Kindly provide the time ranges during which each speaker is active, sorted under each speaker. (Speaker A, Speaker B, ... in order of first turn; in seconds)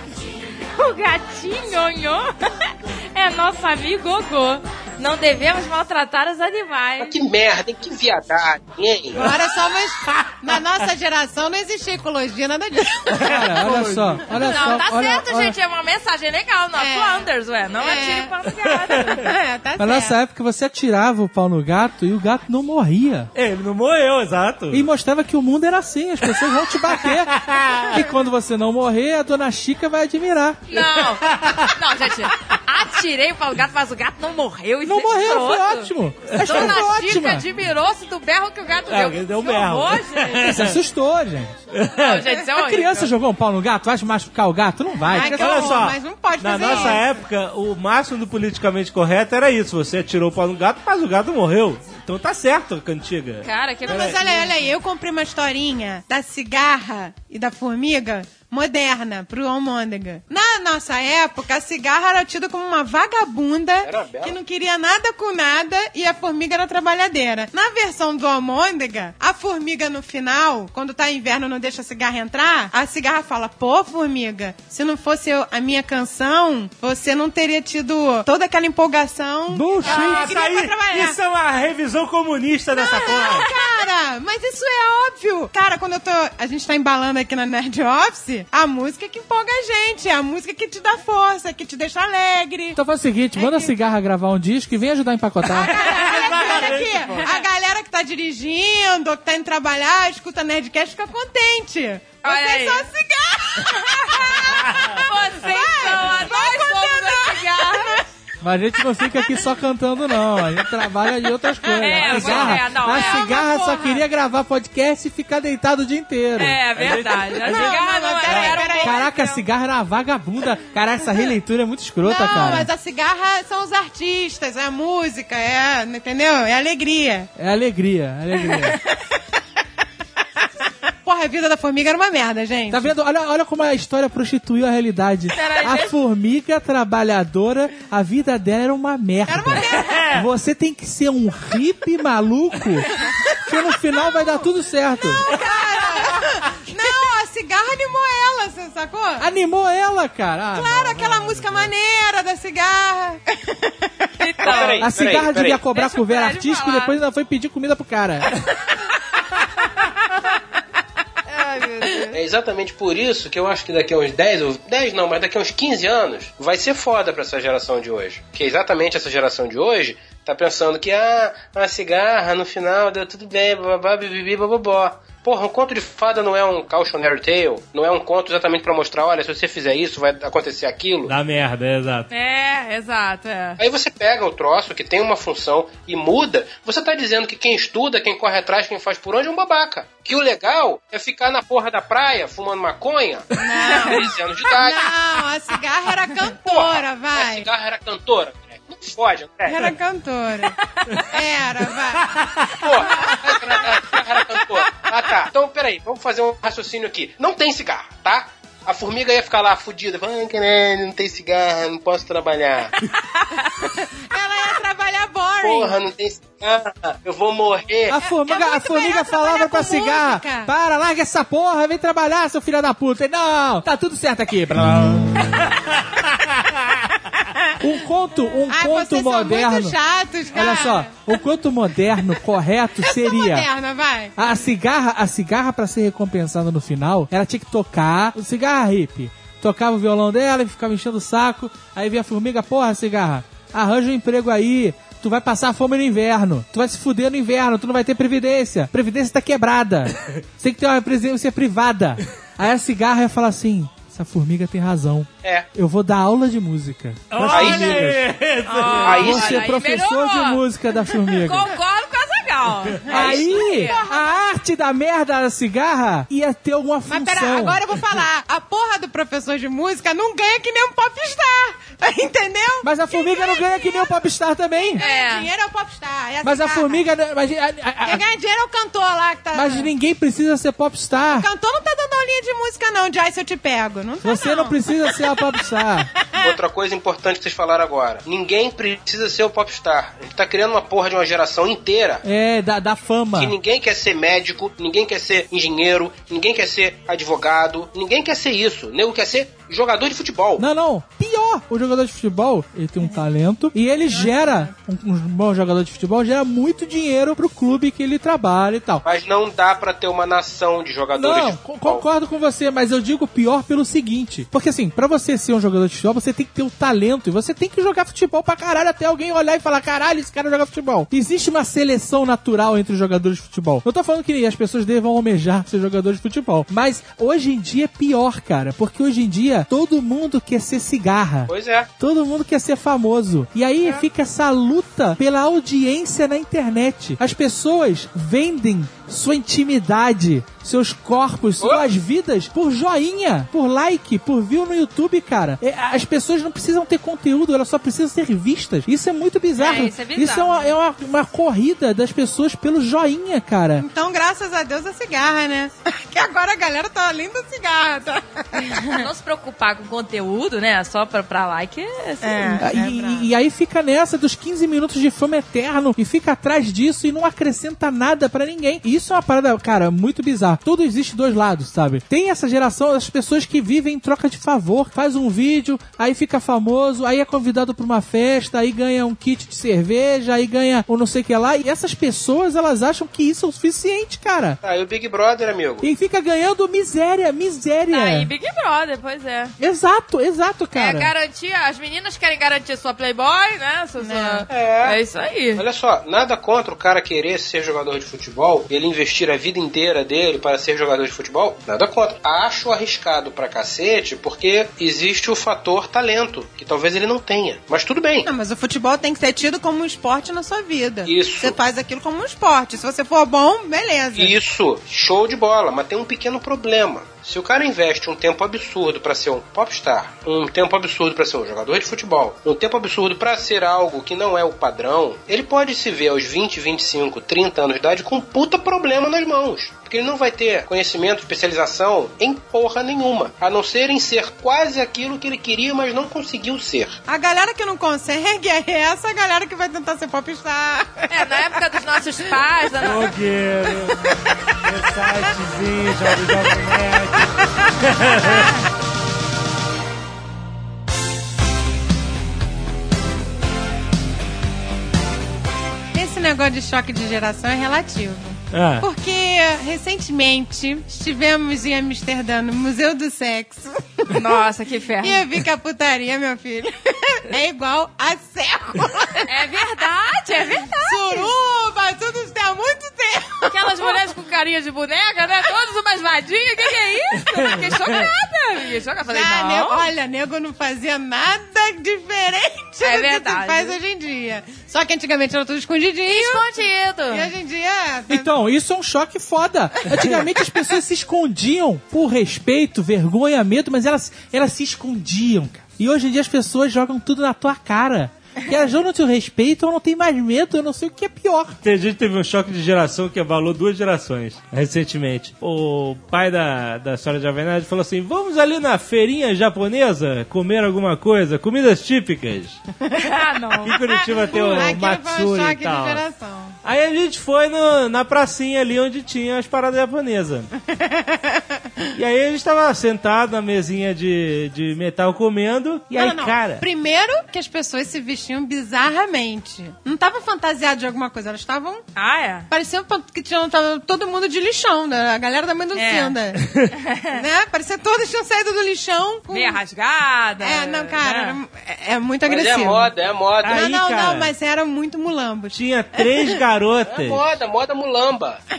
Speaker A: 0.8-7.1, 14.3-19.3, 30.7-40.6, 41.9-43.1, 45.2-45.8, 46.6-47.0, 53.4-54.6, 95.8-97.5, 102.2-102.9, 103.7-108.1, 111.6-113.5, 116.4-119.4, 135.3-135.9, 154.2-154.9, 155.7-157.0, 161.3-162.2, 182.1-183.6, 200.7-201.1, 258.4-260.4, 261.1-263.8, 274.8-275.3, 349.4-350.6, 358.5-362.5, 387.7-389.4, 390.5-395.4, 440.9-442.9, 463.9-465.1, 469.1-471.1, 473.3-479.7, 482.6-483.6, 485.9-487.1, 512.8-514.5, 531.8-532.3, 535.5-536.0, 536.5-537.0, 539.1-541.2
Speaker B: 7.0-9.3, 63.8-64.4, 154.4-155.6, 162.1-181.1, 183.6-194.9, 196.4-199.7, 202.6-212.8, 215.4-218.0, 255.2-255.5, 257.3-258.0, 258.8-259.4, 286.2-292.0, 293.1-300.5, 308.8-311.9, 331.3-331.7, 341.4-341.7, 384.4-385.7, 394.3-394.8, 395.4-408.1, 410.9-411.4, 413.9-436.8, 542.0-543.4, 546.7-548.2
Speaker C: 9.1-13.6, 16.8-18.3, 19.1-20.2, 45.1-47.2, 53.9-81.2, 82.7-92.8, 93.3-93.8, 95.5-108.0, 111.8-114.0, 117.4-119.0, 122.0-127.3, 131.1-132.9, 139.3-140.1, 143.1-143.5, 145.2-149.3, 150.5-154.7, 193.4-194.1, 194.6-197.5, 199.5-200.6, 201.1-202.2, 202.8-203.3, 213.7-215.8, 218.0-220.5, 228.5-231.0, 232.8-234.1, 262.8-264.2, 266.9-274.0, 274.6-276.9, 277.8-279.7, 281.1-285.1, 303.8-304.5, 353.6-358.9, 362.0-363.1, 393.8-394.3, 408.1-414.1, 436.9-441.0, 448.0-448.3, 455.7-464.2, 464.8-469.5, 470.5-473.8, 478.9-486.3, 486.9-488.1, 513.7-516.4, 520.5-521.2, 525.8-531.6, 532.3-539.4, 540.2-542.7, 543.3-546.1
Speaker D: 13.1-14.5, 18.7-19.2, 23.4-24.9, 27.0-28.0, 31.2-31.7, 36.3-36.8, 38.9-40.8, 41.7-42.4, 45.1-54.2, 79.8-83.5, 95.7-97.3, 104.6-105.0, 112.0-112.5, 116.8-118.7, 139.7-140.2, 145.3-146.2, 150.9-151.7, 181.1-182.1, 202.2-202.4, 257.1-259.1, 442.6-443.9, 444.4-448.3, 458.3-458.7, 501.4-512.4, 513.4-515.8, 516.4-520.3, 521.7-526.4, 543.2-544.1, 545.3-547.0
Speaker E: 13.2-15.6, 19.8-23.3, 24.7-30.8, 34.8-37.5, 40.4-41.6, 42.5-45.5, 79.5-80.3, 92.8-95.7, 108.4-116.6, 118.8-122.7, 127.4-128.8, 132.7-142.9, 143.5-145.3, 149.2-151.0, 154.8-158.3, 217.9-225.4, 227.6-229.8, 230.3-233.5, 234.2-258.0, 258.9-261.5, 262.9-267.6, 272.6-274.8, 276.2-278.0, 279.3-281.3, 284.0-285.9, 292.0-293.3, 300.4-308.8, 310.9-353.7, 362.4-384.4, 385.6-388.1, 389.4-390.9, 487.9-501.4